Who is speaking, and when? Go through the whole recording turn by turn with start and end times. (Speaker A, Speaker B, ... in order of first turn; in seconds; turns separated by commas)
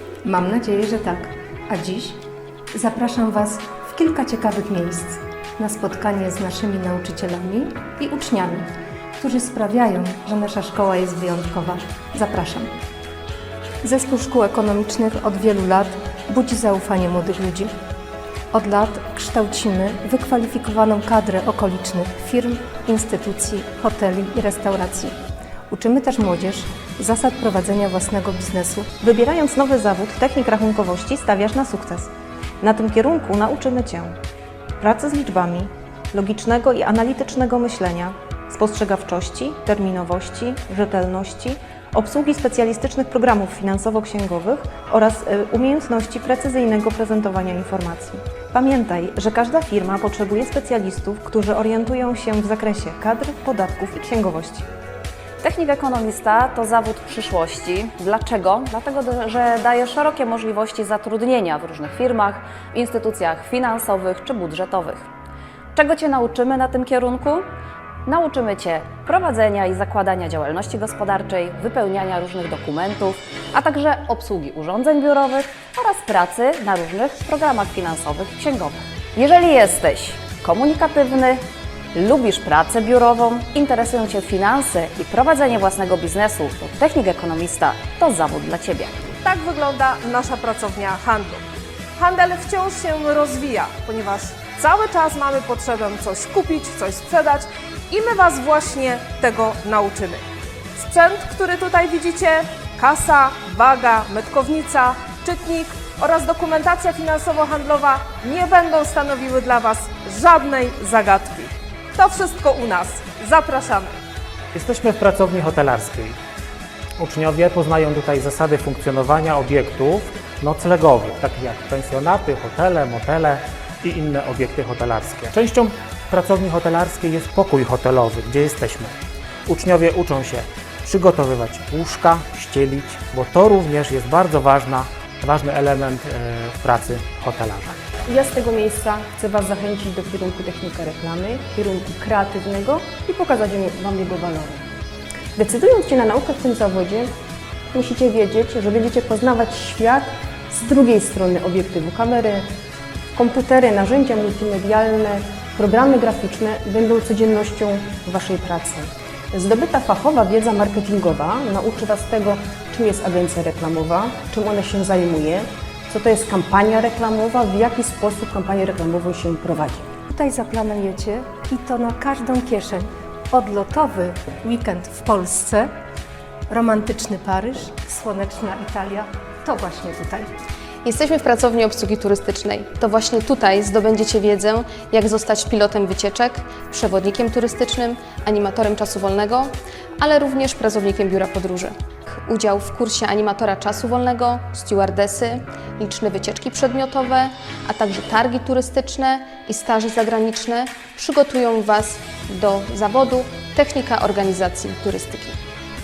Speaker A: 0.2-2.2, Speaker A: 2.7-12.7, Speaker A: 13.8-17.7, Speaker A: 18.5-25.1, Speaker A: 25.7-28.9, Speaker B: 29.0-34.1, Speaker B: 34.8-54.7, Speaker C: 55.4-65.1, Speaker C: 65.8-67.5, Speaker C: 68.1-81.4, Speaker C: 81.9-89.0, Speaker D: 89.2-91.4, Speaker D: 92.0-100.2, Speaker D: 100.8-113.9, Speaker E: 114.5-116.2, Speaker E: 117.0-128.9, Speaker E: 129.5-137.8, Speaker F: 138.1-144.6, Speaker F: 145.4-147.1, Speaker F: 147.7-152.5, Speaker F: 153.2-169.9, Speaker A: 170.1-175.7, Speaker A: 176.5-180.3, Speaker G: 180.8-191.7, Speaker G: 192.2-205.4